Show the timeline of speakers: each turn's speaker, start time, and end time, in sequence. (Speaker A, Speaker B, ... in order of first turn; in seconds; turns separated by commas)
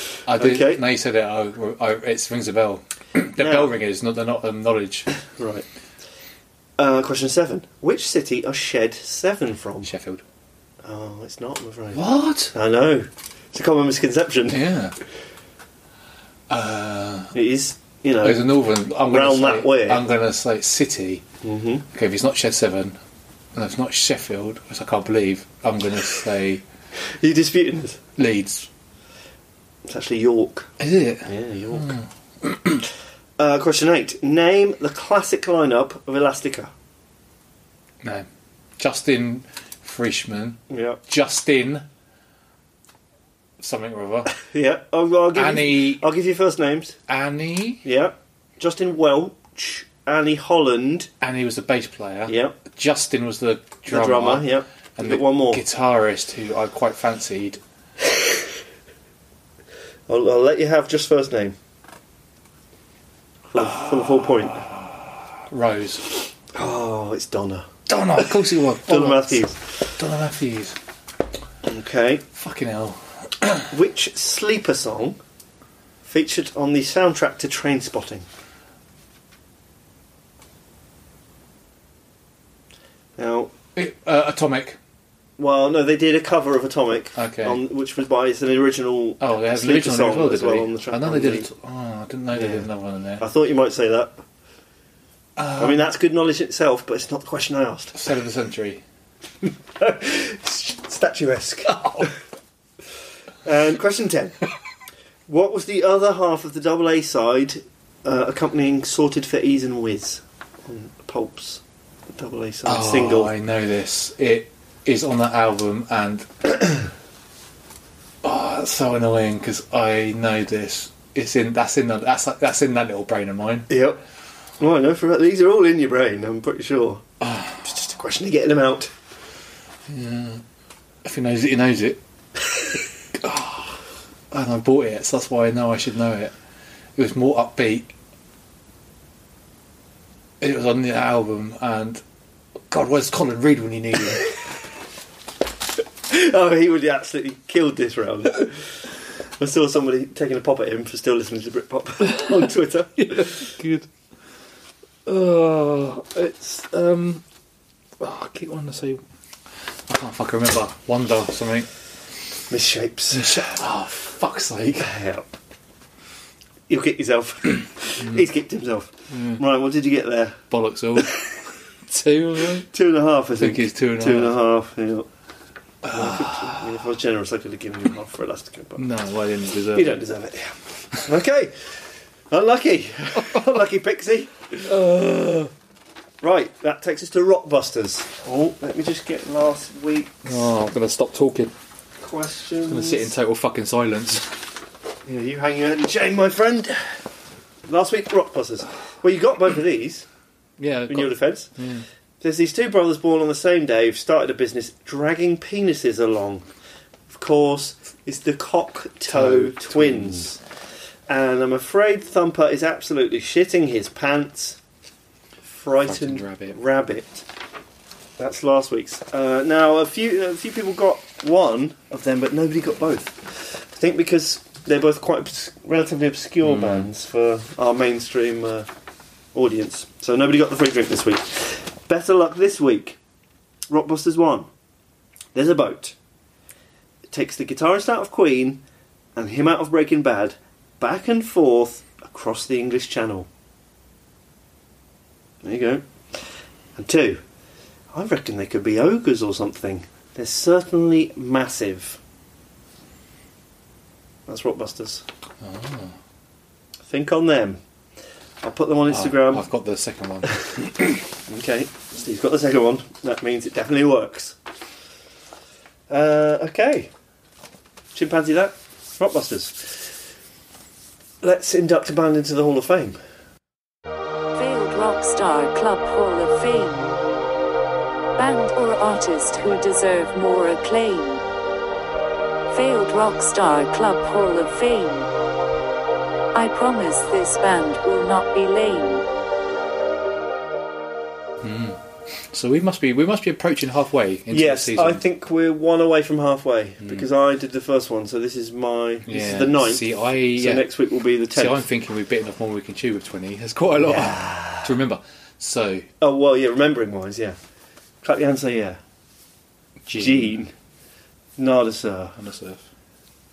Speaker A: 0.3-5.1, Speaker B: 0.3-0.8, Speaker B: 3.4-3.8, Speaker B: 5.2-5.6, Speaker B: 6.8-9.9, Speaker A: 9.8-10.2, Speaker B: 10.8-14.6, Speaker A: 11.9-12.5, Speaker A: 14.5-14.9, Speaker A: 16.5-17.3, Speaker B: 17.3-18.4, Speaker A: 18.2-21.2, Speaker B: 19.1-20.0, Speaker B: 21.4-21.8, Speaker A: 21.9-23.0, Speaker A: 23.5-26.6, Speaker B: 27.1-28.0, Speaker A: 28.2-28.7, Speaker B: 29.9-32.0, Speaker A: 30.8-32.8, Speaker B: 33.4-36.7, Speaker A: 38.8-41.9, Speaker B: 40.7-41.0, Speaker A: 43.6-44.3, Speaker B: 44.4-47.0, Speaker A: 45.3-46.0, Speaker A: 47.1-47.8, Speaker B: 47.8-51.1, Speaker A: 51.2-57.6, Speaker B: 52.3-52.5, Speaker B: 53.9-55.6, Speaker B: 60.1-61.5, Speaker B: 63.5-64.6, Speaker A: 65.4-66.1, Speaker B: 66.5-69.9, Speaker A: 67.9-69.4, Speaker A: 70.0-70.8, Speaker B: 71.6-72.2, Speaker A: 72.3-73.7, Speaker B: 73.7-75.2, Speaker B: 76.0-78.2, Speaker B: 83.2-83.5, Speaker A: 83.7-84.8, Speaker B: 85.4-91.5, Speaker A: 87.2-87.6, Speaker A: 89.2-93.2, Speaker B: 92.3-92.6, Speaker B: 93.2-94.2, Speaker A: 95.4-95.8, Speaker B: 95.6-98.0, Speaker A: 97.9-98.8, Speaker B: 99.8-102.1, Speaker A: 101.7-102.1, Speaker B: 103.4-104.4, Speaker B: 105.3-113.3, Speaker A: 112.6-116.6, Speaker A: 118.2-123.7, Speaker B: 123.7-124.0, Speaker B: 124.6-128.9, Speaker A: 127.2-127.5, Speaker A: 129.9-130.4, Speaker A: 131.0-132.0, Speaker A: 133.1-133.8, Speaker A: 134.3-136.3, Speaker A: 136.9-137.9, Speaker A: 140.4-142.0, Speaker A: 142.7-144.3, Speaker B: 146.1-148.8, Speaker B: 149.4-153.6, Speaker A: 152.1-153.9, Speaker A: 155.1-157.2, Speaker A: 158.0-159.0, Speaker A: 159.9-161.7, Speaker B: 162.5-163.5, Speaker A: 163.1-164.9, Speaker B: 164.8-165.3, Speaker B: 166.7-170.4, Speaker A: 168.0-168.2, Speaker A: 169.1-169.4, Speaker A: 170.5-171.2, Speaker A: 171.8-172.7, Speaker B: 172.6-175.1, Speaker A: 173.4-174.3, Speaker A: 175.8-176.7, Speaker B: 175.9-178.8, Speaker A: 178.8-179.9, Speaker B: 179.7-181.8, Speaker B: 182.3-184.7, Speaker A: 183.2-183.5, Speaker A: 184.6-185.5, Speaker B: 186.2-190.3, Speaker A: 190.2-191.5, Speaker B: 192.0-193.1, Speaker A: 192.7-194.4, Speaker B: 195.1-196.9, Speaker B: 197.7-200.1, Speaker A: 200.6-201.8, Speaker B: 200.9-201.5, Speaker B: 202.2-206.4, Speaker B: 207.1-210.4, Speaker A: 209.1-210.3, Speaker B: 211.1-214.6, Speaker B: 215.5-217.2, Speaker A: 215.8-216.6, Speaker B: 218.2-228.7, Speaker A: 226.4-226.9, Speaker B: 229.3-233.0, Speaker B: 233.7-234.5, Speaker B: 235.3-235.9, Speaker B: 237.1-238.6, Speaker B: 239.2-243.3, Speaker B: 245.4-246.2, Speaker B: 246.8-247.2, Speaker B: 247.9-252.0, Speaker B: 254.3-255.0, Speaker A: 255.4-255.9, Speaker B: 256.9-257.6, Speaker B: 258.4-259.5, Speaker A: 258.9-260.9, Speaker B: 261.3-264.4, Speaker B: 265.9-266.9, Speaker B: 267.9-269.8, Speaker B: 271.2-273.0, Speaker C: 274.3-277.0, Speaker C: 278.2-281.2, Speaker C: 282.5-285.1, Speaker C: 286.3-289.0, Speaker A: 291.4-295.0, Speaker B: 294.3-301.6, Speaker A: 296.8-297.1, Speaker A: 299.1-300.6, Speaker A: 301.3-305.9, Speaker B: 303.8-304.7, Speaker B: 306.0-307.4, Speaker B: 308.0-308.8, Speaker A: 309.9-310.4, Speaker B: 309.9-310.5, Speaker B: 311.4-312.2, Speaker A: 312.2-312.6